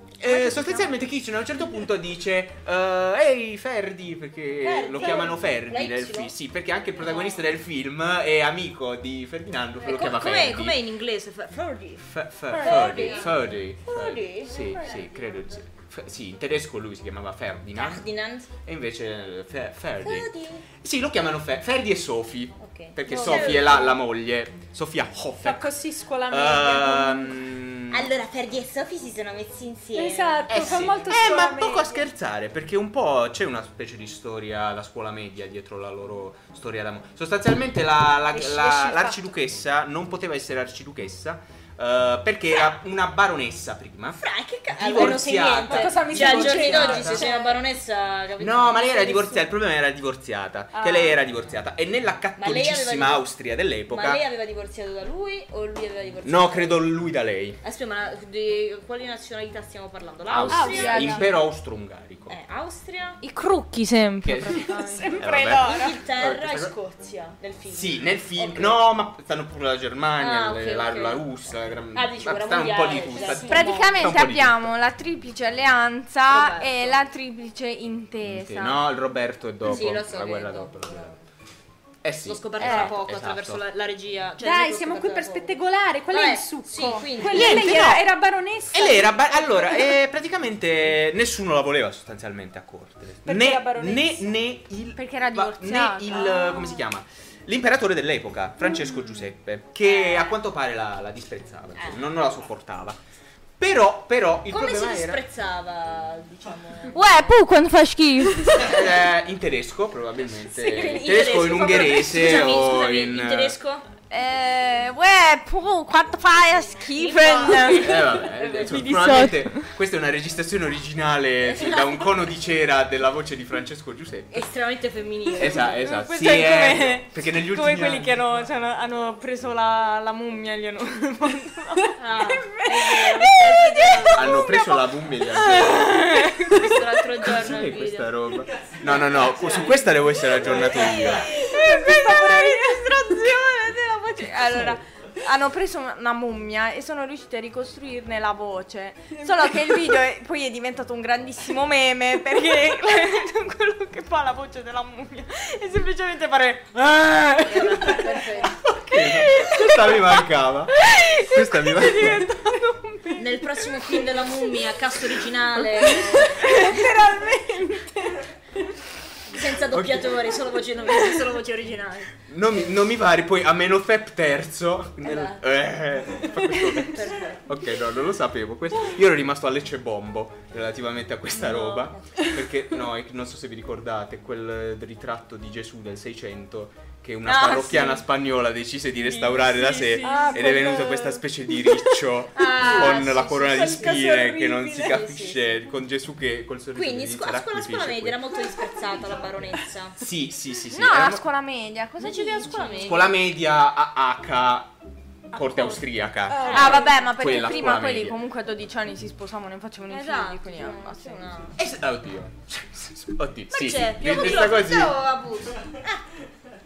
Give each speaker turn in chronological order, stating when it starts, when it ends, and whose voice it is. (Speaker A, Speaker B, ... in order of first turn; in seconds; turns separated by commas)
Speaker A: 0.2-10.8, Speaker B: 0.4-0.9, Speaker C: 4.6-6.3, Speaker C: 7.0-7.5, Speaker C: 9.8-15.4, Speaker A: 12.0-18.1, Speaker D: 12.7-13.2, Speaker C: 17.8-18.5, Speaker A: 18.6-28.1, Speaker C: 20.0-20.7, Speaker C: 22.6-24.0, Speaker D: 23.1-24.0, Speaker D: 25.4-27.4, Speaker C: 27.9-31.2, Speaker D: 29.9-32.1, Speaker A: 30.5-44.2, Speaker D: 38.3-39.4, Speaker C: 44.1-49.5, Speaker A: 44.8-47.3, Speaker D: 45.0-47.6, Speaker A: 48.4-54.2, Speaker C: 50.8-51.1, Speaker C: 52.4-53.3, Speaker C: 53.9-57.0, Speaker A: 56.2-57.6, Speaker C: 57.6-61.3, Speaker A: 60.3-62.4, Speaker B: 60.5-61.3, Speaker D: 60.5-61.3, Speaker C: 62.3-63.2, Speaker B: 63.2-65.2, Speaker A: 64.2-66.8, Speaker D: 64.6-65.9, Speaker C: 65.2-68.8, Speaker A: 67.7-74.7, Speaker C: 70.2-71.3, Speaker C: 71.9-74.1, Speaker B: 73.4-78.8, Speaker C: 76.3-77.0, Speaker A: 78.2-81.2, Speaker C: 79.7-81.2, Speaker A: 82.0-83.6, Speaker C: 82.2-88.0, Speaker B: 82.6-82.9, Speaker D: 84.4-90.0, Speaker A: 87.2-88.1, Speaker A: 88.7-103.0, Speaker D: 93.2-94.3, Speaker B: 95.0-96.8, Speaker C: 99.8-100.4, Speaker C: 101.8-102.1, Speaker A: 103.6-105.2, Speaker C: 104.5-107.3, Speaker B: 106.9-108.7, Speaker A: 108.5-113.6, Speaker D: 110.5-112.7, Speaker C: 110.7-113.8, Speaker B: 114.1-119.7, Speaker C: 117.0-119.0, Speaker A: 117.6-124.5, Speaker C: 121.6-122.2, Speaker C: 124.3-125.8, Speaker A: 125.4-128.5, Speaker B: 125.8-137.0, Speaker C: 132.0-134.6, Speaker A: 134.1-136.1, Speaker C: 136.2-138.3, Speaker A: 137.2-141.3, Speaker C: 138.9-139.8, Speaker C: 140.3-141.6, Speaker D: 140.5-143.0, Speaker B: 140.6-163.5, Speaker A: 156.8-157.8, Speaker C: 157.4-158.5, Speaker A: 158.5-162.3, Speaker C: 163.2-166.9, Speaker B: 165.9-167.1, Speaker D: 166.3-168.2, Speaker C: 169.3-172.2, Speaker A: 169.7-170.3, Speaker A: 172.3-198.2, Speaker C: 175.0-175.4, Speaker C: 176.2-177.5, Speaker C: 181.3-182.3, Speaker C: 187.3-188.0, Speaker C: 189.0-190.6, Speaker D: 190.0-191.9, Speaker C: 192.3-195.5, Speaker C: 196.7-200.0, Speaker A: 200.0-201.2, Speaker B: 200.7-203.1, Speaker C: 202.0-203.1, Speaker A: 202.8-204.8, Speaker A: 205.3-208.2, Speaker C: 205.4-205.8, Speaker D: 206.3-206.9, Speaker C: 206.3-206.9, Speaker B: 206.5-211.6, Speaker C: 209.9-211.6, Speaker A: 211.6-215.0, Speaker C: 213.5-216.0